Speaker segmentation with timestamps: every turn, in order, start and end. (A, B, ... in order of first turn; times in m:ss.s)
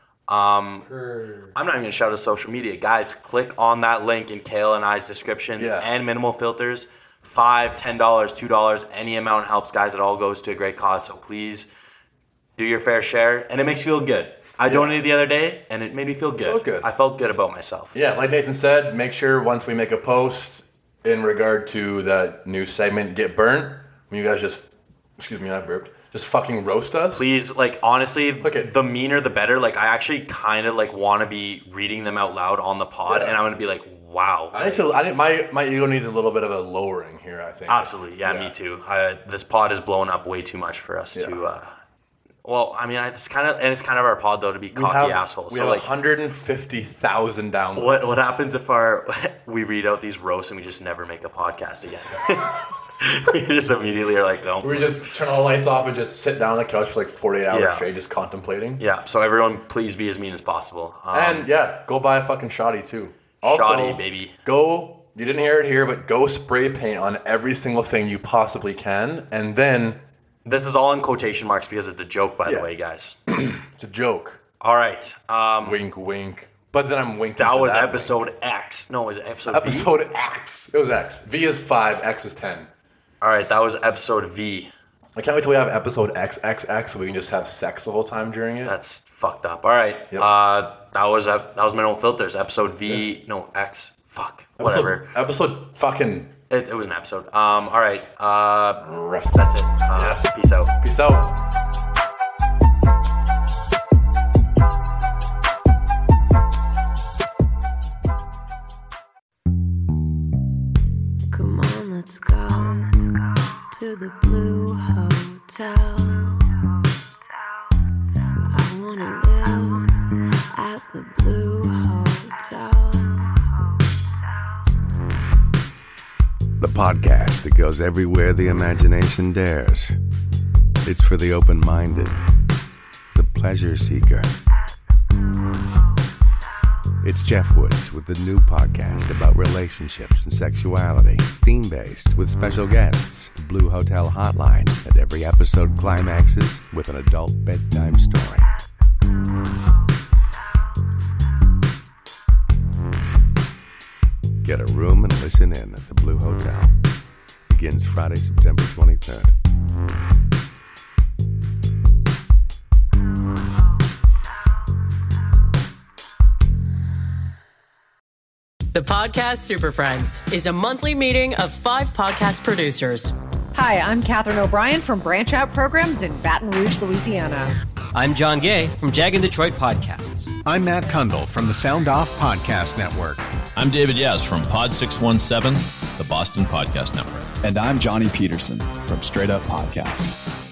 0:00.3-0:00.9 A
0:00.9-0:01.5 B
0:01.5-0:11.7 A
0:05.6-0:05.9 B
0:12.6-0:18.0 A
0:14.7-0:15.0 B
0:16.4-0:16.9 B
0:17.9-0:24.7 B
0:25.2-0:27.3 B
0:27.1-0:34.9 A
0:28.4-0:28.7 B
0:33.1-0:33.4 B
0:34.5-0:38.5 B
0:37.7-0:41.8 A
0:42.4-0:45.9 A
0:44.7-0:48.2 B
0:47.8-0:55.2 A
0:54.6-0:58.8 B
0:57.5-0:57.9 A
0:58.8-1:01.5 A
1:01.1-1:10.0 B
1:03.4-1:04.4 A
1:10.4-1:13.2 A
1:13.3-1:14.4 B
1:14.6-1:15.8 A
1:15.6-1:18.3 B
1:17.4-1:19.9 A
1:19.5-1:22.7 B
1:23.2-1:24.7 A
1:25.2-1:28.8 B
1:28.6-1:35.1 A
1:34.6-1:36.3 B
1:36.5-1:40.8 A
1:38.8-1:40.3 B
1:40.8-1:41.4 B
1:51.3-1:53.2 C
1:53.7-1:56.5 C
1:58.5-2:03.5 C
2:06.6-2:10.0 D
2:10.8-2:12.3 D
2:13.1-2:14.3 D
2:17.0-2:28.5 D
2:34.4-2:36.7 D
2:37.5-2:39.3 D
2:48.7-2:53.2 E
2:53.5-2:57.5 F
2:57.9-3:00.4 G
3:00.4-3:03.2 H
3:03.6-3:07.4 I
3:07.4-3:10.3 H